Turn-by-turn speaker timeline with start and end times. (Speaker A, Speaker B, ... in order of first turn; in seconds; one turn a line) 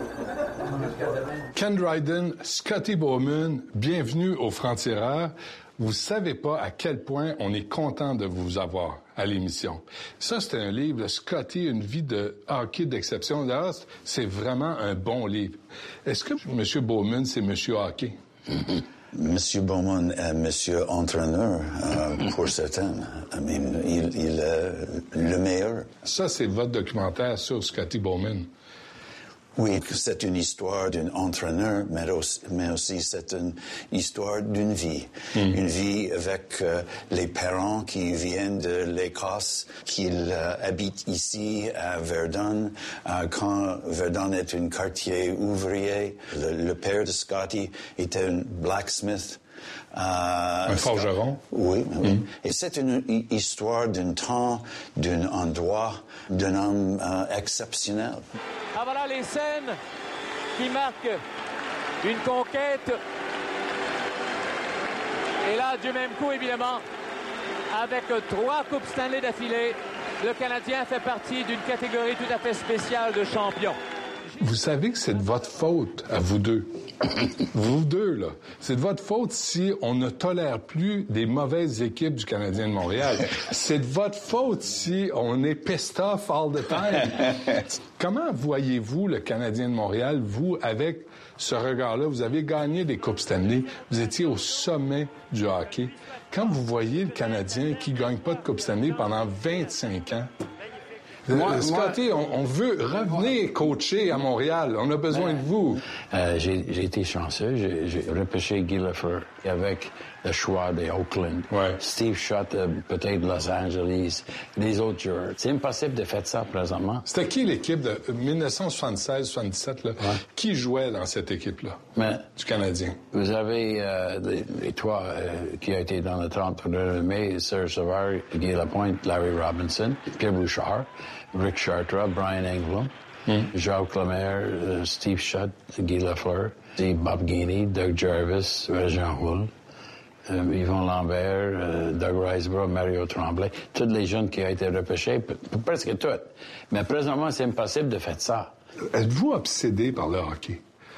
Speaker A: 1.5-18.1
Speaker B: 19.1-25.9
Speaker A: 26.0-28.5
Speaker B: 29.6-49.4
Speaker B: 49.9-58.2
Speaker A: 50.7-51.4
Speaker C: 58.7-59.8
Speaker C: 60.6-61.2
Speaker C: 62.0-63.0
Speaker C: 65.4-66.8
Speaker C: 67.7-73.8
Speaker A: 74.4-76.7
Speaker A: 77.5-100.3
Speaker A: 101.3-105.8
Speaker D: 101.3-102.0
Speaker D: 106.1-117.1
Speaker A: 111.5-111.8
Speaker A: 117.1-123.0
Speaker D: 122.0-122.2
Speaker D: 123.1-132.9
Speaker D: 133.5-139.5
Speaker D: 140.2-148.5
Speaker A: 148.9-150.6